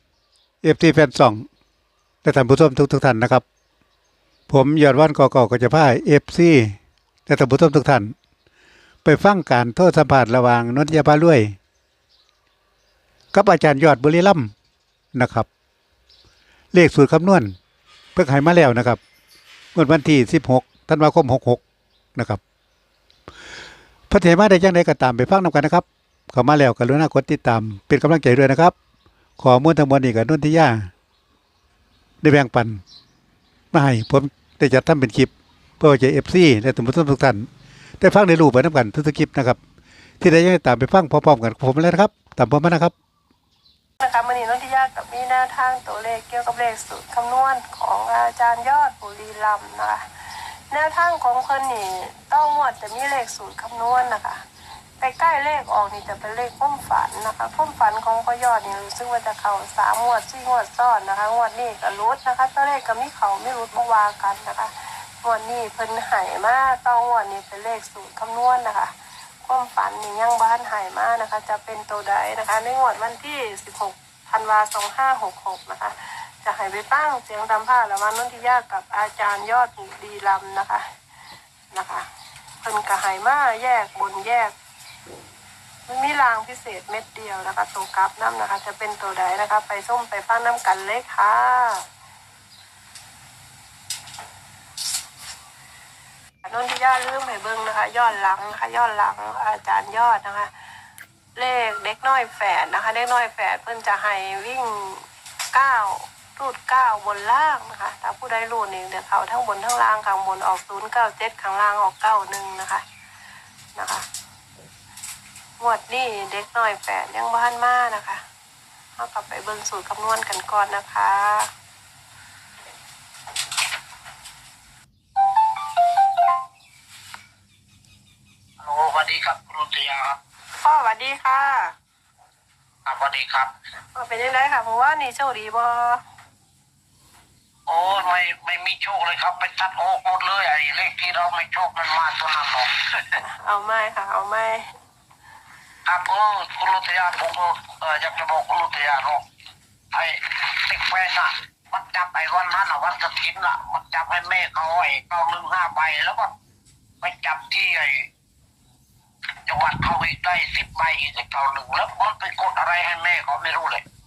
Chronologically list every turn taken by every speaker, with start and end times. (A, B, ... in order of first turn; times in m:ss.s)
0:00.6-0:01.4 A
0:02.2-0:03.4 A
0:04.5-0:08.1 A
0:09.0-0:11.5 A
0:13.3-0:14.5 A
0:15.1-0:15.5 A
0:16.7-0:17.6 A
0:18.1-0:19.0 A
0:19.7-0:21.6 A
0:22.1-0:22.4 A
0:24.1-0:28.7 A
0:29.4-0:30.9 A
0:32.2-0:32.8 A
0:33.7-0:37.5 A
0:38.0-0:39.6 A
0:40.2-0:42.9 A
0:44.0-0:50.0 B
0:50.7-0:54.4 B
0:55.0-1:08.9 B
1:09.4-1:20.8 B
1:21.7-1:22.0 B
1:22.6-1:24.5 B
1:25.9-1:31.9 B
1:36.4-1:40.5 B
1:41.3-1:52.8 B
1:53.7-1:54.0 B
1:55.6-1:58.2 B
1:59.0-2:01.5 B
2:08.6-2:10.2 C
2:10.6-2:11.7 B
2:12.8-2:13.5 C
2:13.9-2:16.0 B
2:17.7-2:23.2 C
2:23.2-2:24.7 B
2:25.8-2:29.2 C
2:29.9-2:36.3 C
2:37.0-2:38.1 C
2:39.5-2:43.8 C